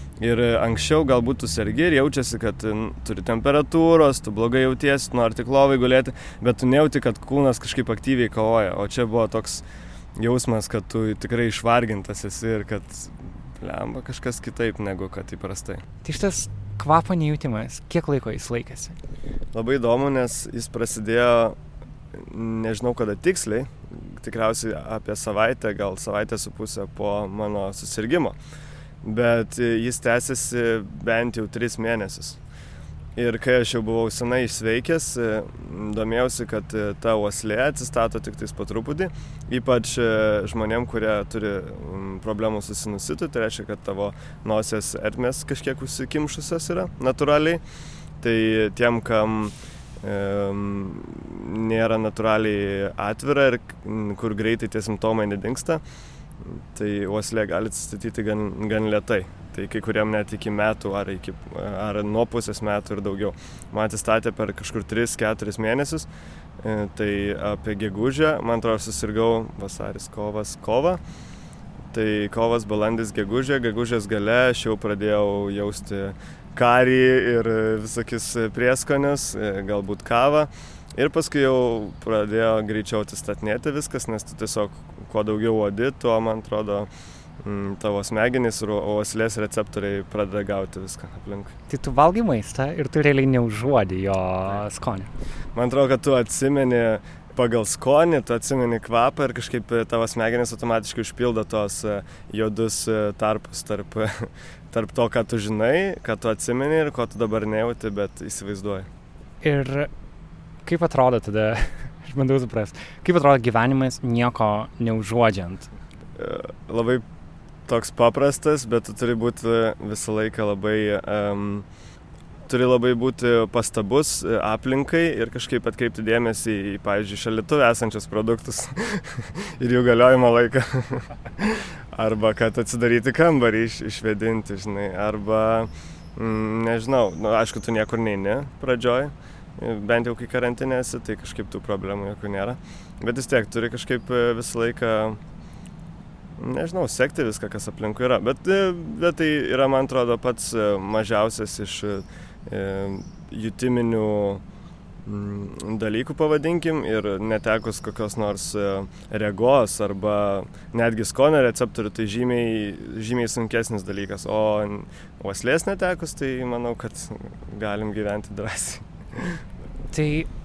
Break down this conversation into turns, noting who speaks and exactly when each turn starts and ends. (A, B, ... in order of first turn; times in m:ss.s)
0:00.2-0:09.6 A
0:10.2-0:15.8 A
0:16.0-0:18.9 B
0:19.5-0:21.6 A
0:22.1-0:28.4 A
0:29.0-0:32.4 A
0:33.2-0:47.6 A
0:48.2-0:55.8 A
0:56.4-1:06.1 A
1:06.6-1:11.0 A
1:11.9-1:26.9 A
1:27.4-1:31.5 A
1:31.7-1:35.1 B
1:35.5-1:48.9 A
1:49.4-1:49.9 B
1:50.6-1:55.7 B
1:56.2-1:57.0 A
1:57.6-2:01.7 A
2:02.5-2:25.2 A
2:26.4-2:34.4 A
2:35.0-2:49.4 A
2:49.9-2:50.3 B